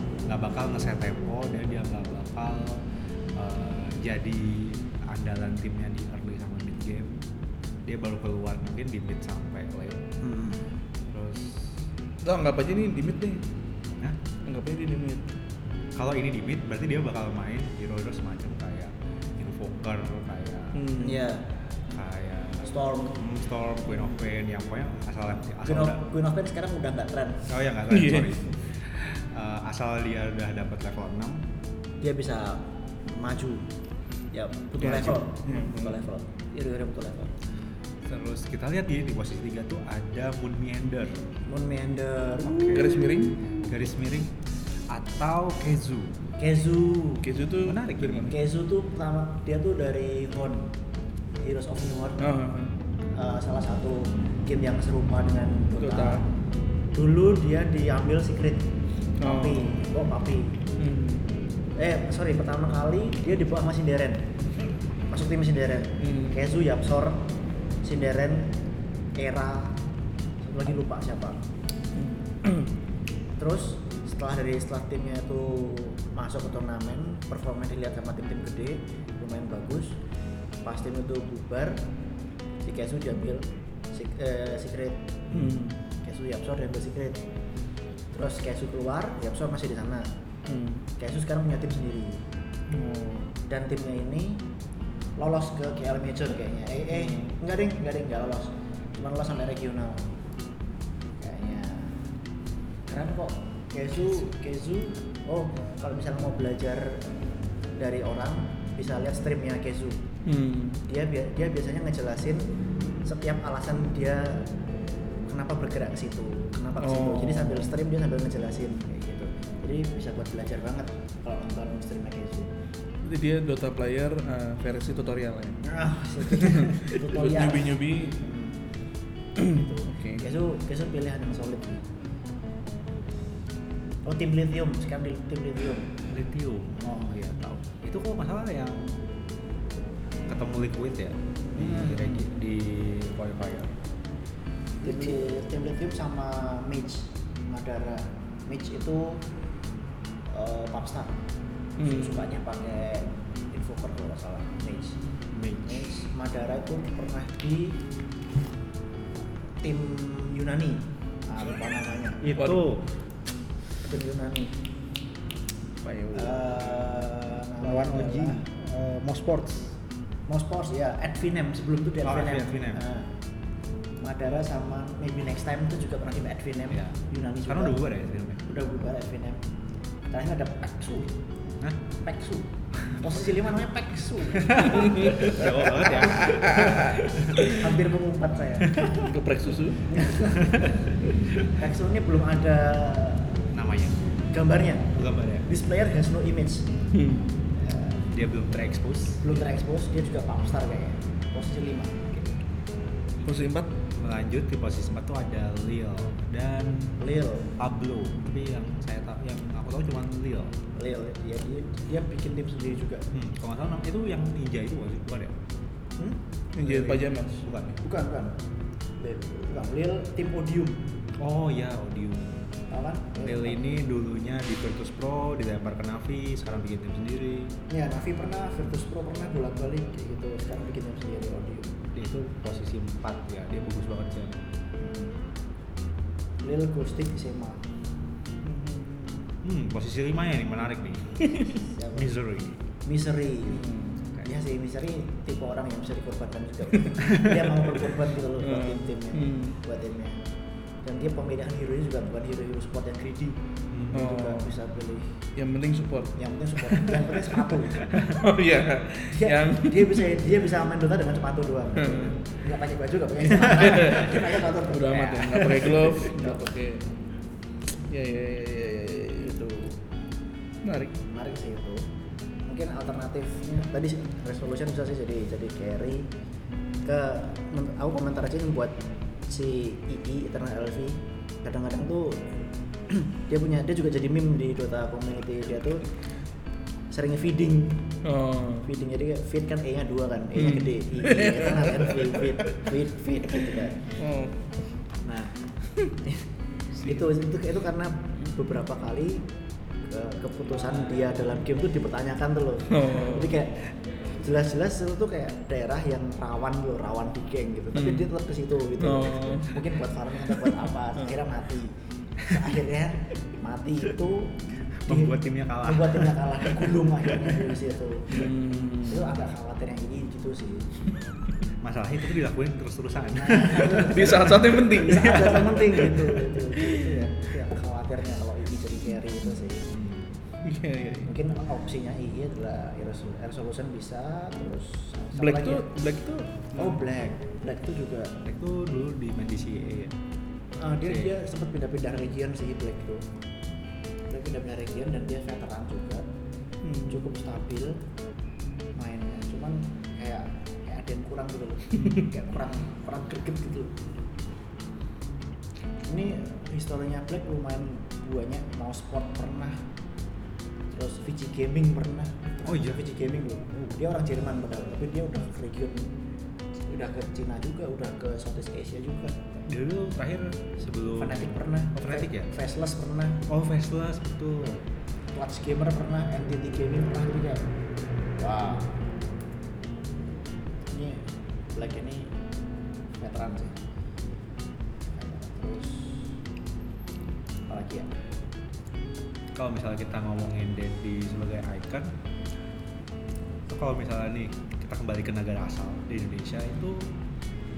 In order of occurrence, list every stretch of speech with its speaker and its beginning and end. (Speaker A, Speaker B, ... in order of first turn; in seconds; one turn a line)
Speaker A: 0.2-2.8
Speaker A: 3.3-7.2
Speaker A: 7.8-10.0
Speaker B: 10.2-10.6
Speaker A: 11.1-11.7
Speaker C: 12.2-13.4
Speaker C: 14.4-15.3
Speaker A: 15.9-20.9
Speaker C: 20.7-21.2
Speaker B: 21.0-21.4
Speaker A: 21.9-26.0
Speaker B: 22.6-23.2
Speaker B: 25.6-27.5
Speaker A: 27.5-31.4
Speaker C: 27.9-28.4
Speaker B: 32.0-33.7
Speaker B: 34.3-37.3
Speaker C: 34.8-36.0
Speaker A: 38.0-41.2
Speaker B: 41.5-43.2
Speaker A: 42.4-43.0
Speaker C: 42.7-43.4
Speaker A: 43.6-44.3
Speaker A: 44.9-46.3
Speaker B: 46.4-47.3
Speaker C: 47.2-48.3
Speaker A: 47.6-48.3
Speaker B: 48.2-50.7
Speaker B: 51.4-52.2
Speaker C: 52.2-52.7
Speaker B: 53.1-56.2
Speaker C: 55.8-56.2
Speaker B: 56.9-58.7
Speaker C: 59.2-59.8
Speaker B: 59.2-60.6
Speaker C: 60.8-61.3
Speaker B: 61.8-64.3
Speaker B: 65.1-67.3
Speaker C: 66.0-66.4
Speaker B: 67.8-68.6
Speaker B: 69.2-69.8
Speaker B: 70.4-71.4
Speaker C: 71.9-72.7
Speaker B: 73.4-80.0
Speaker B: 80.6-81.8
Speaker B: 82.6-85.2
Speaker A: 85.3-85.6
Speaker C: 85.3-85.8
Speaker B: 86.0-87.2
Speaker B: 88.1-90.1
Speaker C: 90.5-90.8
Speaker B: 91.0-92.2
Speaker C: 92.7-93.3
Speaker B: 93.4-94.4
Speaker B: 95.2-100.1
Speaker C: 96.9-97.3
Speaker B: 101.2-102.0
Speaker B: 102.9-107.1
Speaker B: 107.8-110.0
Speaker C: 110.2-110.8
Speaker B: 110.8-112.5
Speaker B: 113.0-114.5
Speaker B: 115.2-122.5
Speaker C: 116.8-117.7
Speaker C: 123.0-125.6
Speaker B: 125.6-128.6
Speaker C: 126.2-128.2
Speaker C: 129.4-130.2
Speaker B: 129.4-131.8
Speaker B: 134.0-135.9
Speaker A: 136.1-139.0
Speaker B: 136.8-137.2
Speaker A: 140.3-143.8
Speaker B: 141.5-142.3
Speaker B: 144.8-149.2
Speaker B: 150.3-151.1
Speaker C: 151.8-152.3
Speaker B: 151.8-155.0
Speaker A: 155.3-155.9
Speaker B: 155.6-157.8
Speaker B: 159.6-162.2
Speaker A: 162.2-162.9
Speaker C: 162.4-162.7
Speaker B: 163.8-164.5
Speaker C: 165.8-166.4
Speaker B: 166.1-168.4
Speaker A: 167.6-169.8
Speaker B: 170.3-173.1
Speaker A: 172.0-172.8
Speaker B: 174.0-177.8
Speaker A: 176.7-178.4
Speaker B: 178.4-179.4
Speaker B: 180.1-181.1
Speaker B: 181.9-186.3
Speaker A: 184.3-187.5
Speaker C: 184.8-187.7
Speaker B: 187.4-189.1
Speaker A: 188.7-189.1
Speaker C: 189.0-189.9
Speaker B: 189.8-190.8
Speaker A: 190.4-190.7
Speaker B: 191.4-193.4
Speaker A: 193.5-194.2
Speaker B: 194.3-196.7
Speaker A: 194.9-195.5
Speaker C: 196.9-197.3
Speaker B: 197.6-198.1
Speaker A: 198.0-199.4
Speaker B: 199.2-202.3
Speaker C: 203.2-203.7
Speaker A: 203.9-207.0
Speaker B: 207.0-207.5
Speaker A: 207.6-210.5
Speaker B: 210.8-213.1
Speaker A: 213.1-215.3
Speaker C: 216.5-217.5
Speaker A: 216.6-217.8
Speaker B: 217.8-218.3
Speaker B: 219.0-220.9
Speaker A: 221.2-222.4
Speaker B: 222.7-223.6
Speaker A: 223.2-227.6
Speaker B: 227.7-231.8
Speaker A: 231.9-234.5
Speaker B: 234.8-235.2
Speaker B: 236.4-237.6
Speaker C: 238.4-239.2
Speaker A: 239.4-241.4
Speaker C: 241.2-241.5
Speaker B: 241.5-242.1
Speaker A: 241.9-242.6
Speaker B: 242.8-243.7
Speaker C: 243.5-244.0
Speaker B: 244.2-250.2
Speaker C: 248.4-249.6
Speaker B: 250.8-253.4
Speaker A: 253.7-254.0
Speaker B: 253.9-255.1
Speaker C: 253.9-254.5
Speaker C: 255.3-260.1
Speaker B: 256.2-258.1
Speaker B: 259.1-266.4
Speaker C: 261.8-262.1
Speaker C: 263.5-266.9
Speaker C: 267.9-269.6
Speaker B: 269.2-269.6
Speaker C: 270.6-270.9
Speaker B: 271.0-271.9
Speaker B: 272.4-276.1
Speaker B: 276.8-278.8
Speaker B: 279.3-285.9
Speaker B: 286.9-287.9
Speaker C: 288.0-288.7
Speaker B: 288.6-293.9
Speaker C: 290.4-292.5
Speaker C: 293.3-294.4
Speaker B: 295.0-295.3
Speaker B: 296.0-296.2
Speaker B: 296.8-299.2
Speaker B: 299.9-318.3
Speaker C: 302.7-303.3
Speaker C: 307.7-308.1
Speaker C: 308.8-309.7
Speaker C: 310.3-310.6
Speaker A: 314.8-316.3
Speaker C: 318.1-319.0
Speaker B: 318.8-320.8
Speaker A: 321.6-326.2
Speaker B: 323.1-329.7
Speaker C: 323.7-325.4
Speaker C: 326.6-326.9
Speaker A: 329.7-330.1
Speaker C: 330.4-331.1
Speaker B: 331.1-335.7
Speaker C: 335.1-336.8
Speaker B: 336.6-338.1
Speaker A: 338.2-339.9
Speaker B: 340.6-343.1
Speaker A: 340.8-341.1
Speaker B: 344.1-346.0
Speaker C: 346.6-347.1
Speaker B: 346.9-347.8
Speaker B: 348.8-353.7
Speaker C: 351.8-352.0
Speaker B: 355.8-359.6
Speaker B: 360.7-365.9
Speaker A: 362.4-362.8
Speaker B: 366.7-369.4
Speaker A: 369.5-372.3
Speaker B: 370.9-373.2
Speaker A: 373.2-374.7
Speaker B: 375.1-377.4
Speaker B: 378.2-378.8
Speaker B: 380.6-382.1
Speaker B: 382.9-383.6
Speaker B: 384.9-386.1
Speaker B: 387.5-388.0
Speaker A: 389.3-391.9
Speaker A: 393.5-396.9